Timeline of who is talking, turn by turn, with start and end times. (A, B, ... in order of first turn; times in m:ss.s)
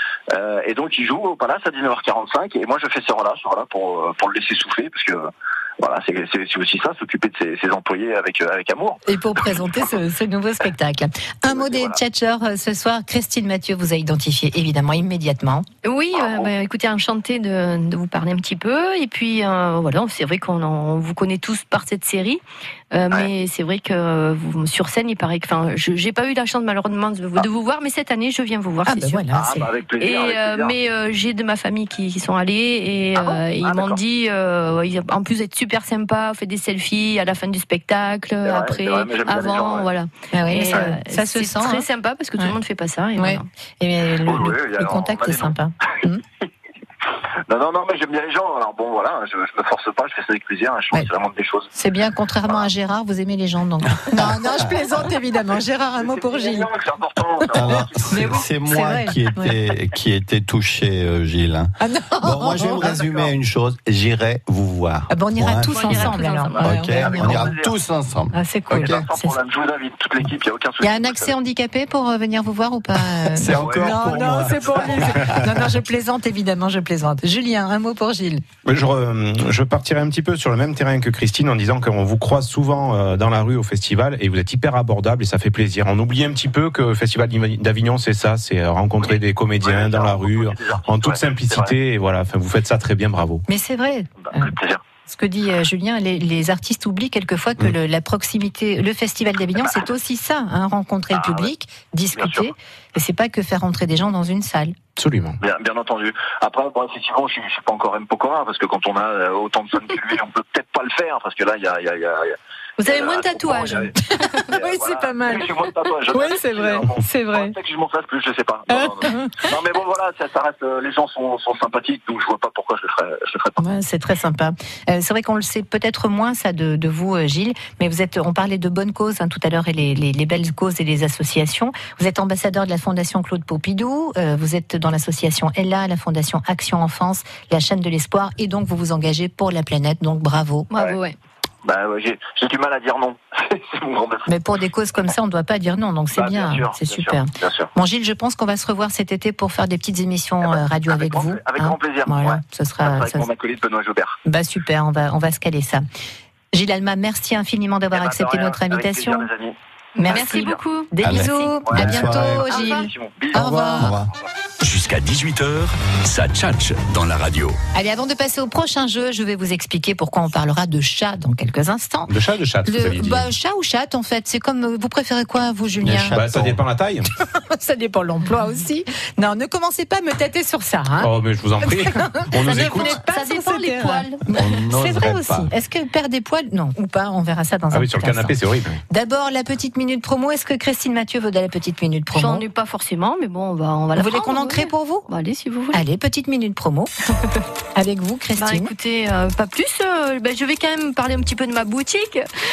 0:00.3-0:09.8 A
0:09.0-0:15.7 B
0:11.5-0:12.0 A
0:15.8-0:29.2 C
0:16.1-0:16.5 A
0:28.8-0:29.7 B
0:29.3-0:30.7 A
0:30.0-0:43.5 C
0:33.2-0:34.0 A
0:38.4-0:39.9 A
0:40.3-0:41.9 B
0:43.2-0:46.2 B
0:44.2-0:45.5 A
0:47.5-0:51.7 A
0:51.7-0:56.7 B
0:56.0-0:58.3 A
0:57.5-0:59.6 B
0:57.5-1:06.0 D
1:01.8-1:03.0 B
1:02.7-1:03.3 A
1:05.1-1:07.5 B
1:05.6-1:06.7 C
1:05.9-1:07.7 A
1:06.6-1:09.0 D
1:08.3-1:09.4 B
1:08.7-1:11.3 A
1:10.8-1:18.4 B
1:13.3-1:15.5 D
1:13.5-1:14.0 A
1:18.6-1:33.4 E
1:29.0-1:31.7 A
1:33.5-1:34.5 B
1:34.2-1:34.8 A
1:35.1-1:44.8 B
1:39.6-1:39.8 A
1:41.1-1:41.5 A
1:42.1-1:42.5 A
1:45.0-1:45.4 E
1:45.4-1:53.9 A
1:52.8-1:54.4 C
1:54.4-1:57.5 B
1:54.5-2:03.6 A
1:58.7-1:59.5 B
2:03.6-2:20.7 B
2:20.7-2:21.2 C
2:21.6-2:24.3 A
2:24.3-2:33.3 B
2:26.1-2:27.7 A
2:30.4-2:34.2 A
2:34.2-2:35.8 B
2:36.5-2:39.3 B
2:37.9-2:39.5 A
2:40.0-2:42.9 C
2:40.0-2:43.9 B
2:40.0-2:40.6 A
2:41.0-2:42.5 D
2:41.6-2:43.4 A
2:43.3-2:44.1 D
2:44.6-2:47.6 F
2:47.7-2:52.1 B
2:52.1-2:53.3 E
2:52.6-2:56.2 B
2:55.8-2:56.6 D
2:56.1-2:57.1 E
2:57.2-3:08.4 B
3:01.0-3:03.0 E
3:02.4-3:04.2 C
3:04.3-3:05.5 D
3:07.7-3:08.8 E
3:08.9-3:12.4 B
3:12.1-3:15.8 C
3:13.9-3:15.1 B
3:15.7-3:16.9 B
3:17.7-3:18.7 B
3:18.4-3:22.3 C